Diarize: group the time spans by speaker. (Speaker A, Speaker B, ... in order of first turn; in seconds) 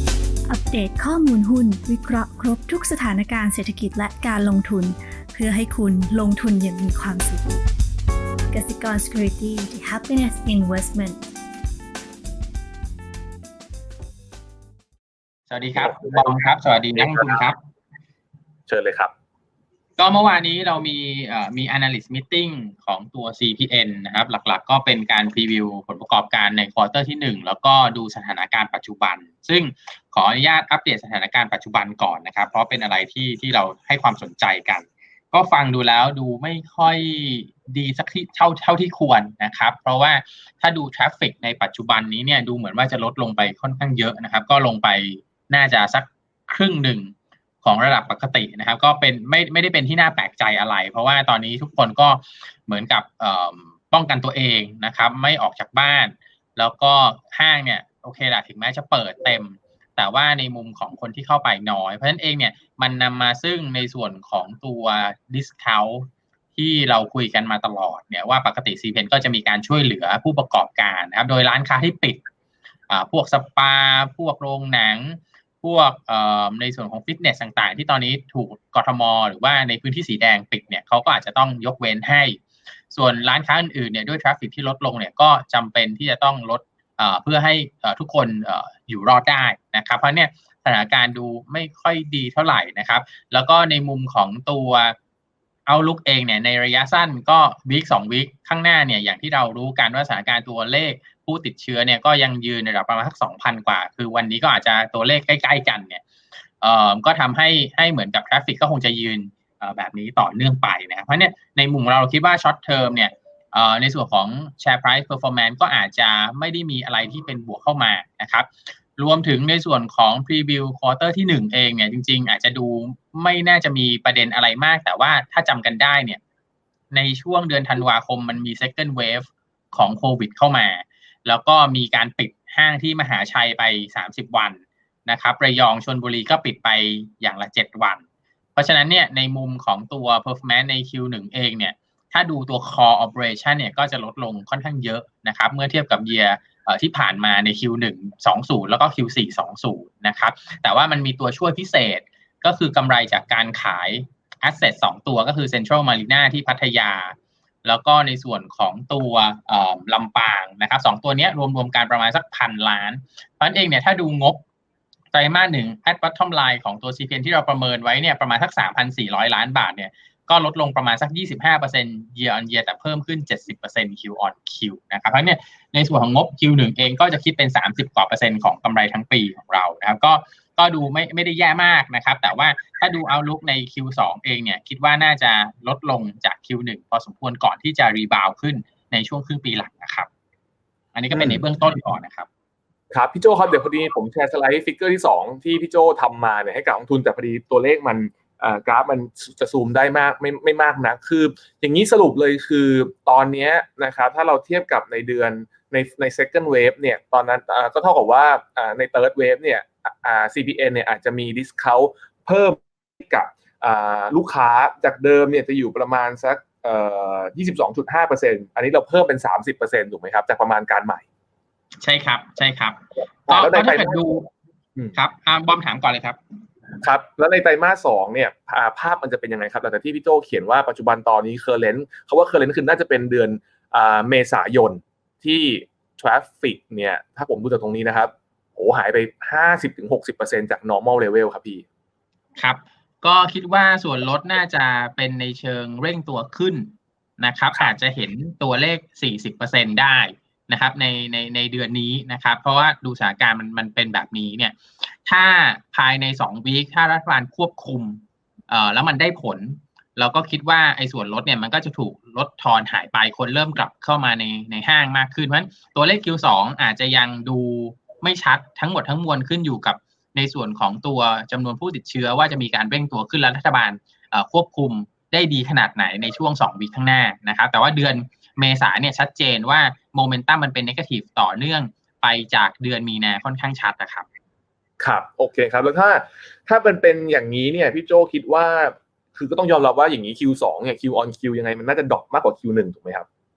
Speaker A: 0.5-7.5, 8.5-11.2
Speaker B: 15.5-17.6, 20.0-72.2, 72.9-82.4, 82.9-95.0, 95.7-106.0, 106.6-126.2, 126.9-164.4, 165.1-190.1, 190.9-192.3, 221.8-224.3, 224.9-226.2, 242.4-284.1
Speaker C: 15.8-17.4, 18.7-19.1, 191.1-191.4, 192.9-221.0, 223.3-224.1, 226.8-241.7, 284.8-293.1